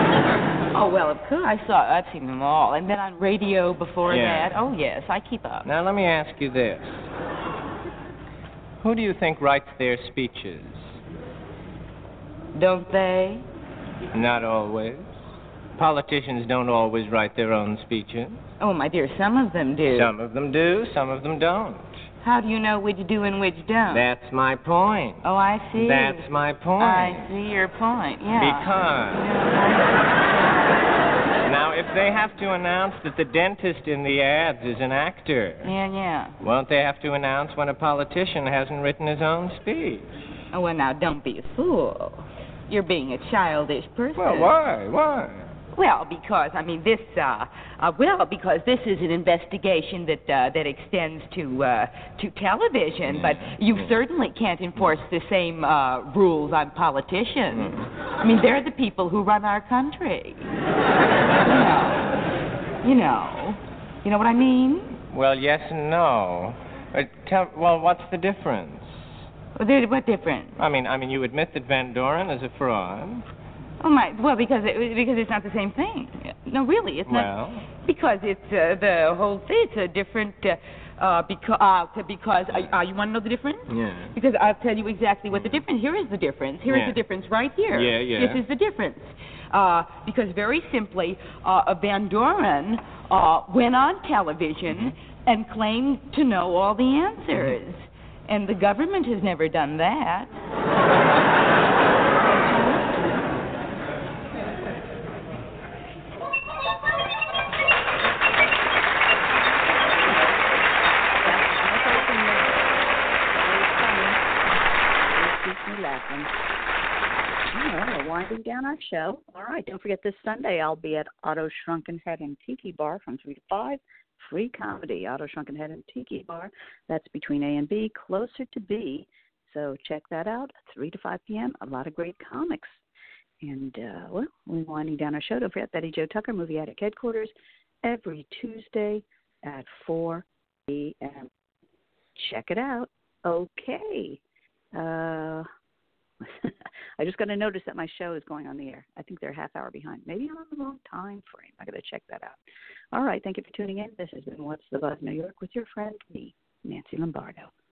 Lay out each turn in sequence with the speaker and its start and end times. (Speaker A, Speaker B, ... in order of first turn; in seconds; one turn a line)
Speaker A: 0.7-5.7
Speaker B: 4.1-4.6
Speaker B: 5.6-7.1
Speaker B: 8.8-10.8
Speaker A: 12.5-13.4
Speaker B: 14.1-15.1
Speaker B: 15.8-18.4
Speaker A: 18.6-20.1
Speaker B: 19.9-22.0
Speaker A: 22.2-24.1
Speaker B: 23.9-27.3
Speaker A: 25.2-26.3
Speaker A: 26.8-30.5
Speaker B: 28.3-29.3
Speaker B: 31.4-35.7
Speaker A: 35.6-36.4
Speaker B: 36.4-40.2
Speaker A: 40.5-44.5
Speaker B: 44.1-45.5
Speaker A: 45.7-60.5
Speaker B: 53.1-54.0
Speaker B: 57.5-57.9
Speaker A: 61.4-62.1
Speaker A: 62.8-65.0
Speaker B: 65.1-69.0
Speaker A: 69.6-70.6
Speaker B: 70.6-73.2
Speaker A: 73.8-100.3
Speaker B: 77.1-77.7
Speaker B: 83.7-84.1
Speaker B: 85.3-85.6
Speaker B: 86.7-87.0
Speaker B: 87.7-88.4
Speaker C: 111.2-116.3
Speaker C: 117.5-132.8
Speaker C: 133.4-137.3
Speaker C: 137.8-141.3
Speaker C: 142.2-144.2
Speaker C: 144.7-145.5
Speaker C: 146.2-152.4
Speaker C: 152.9-157.5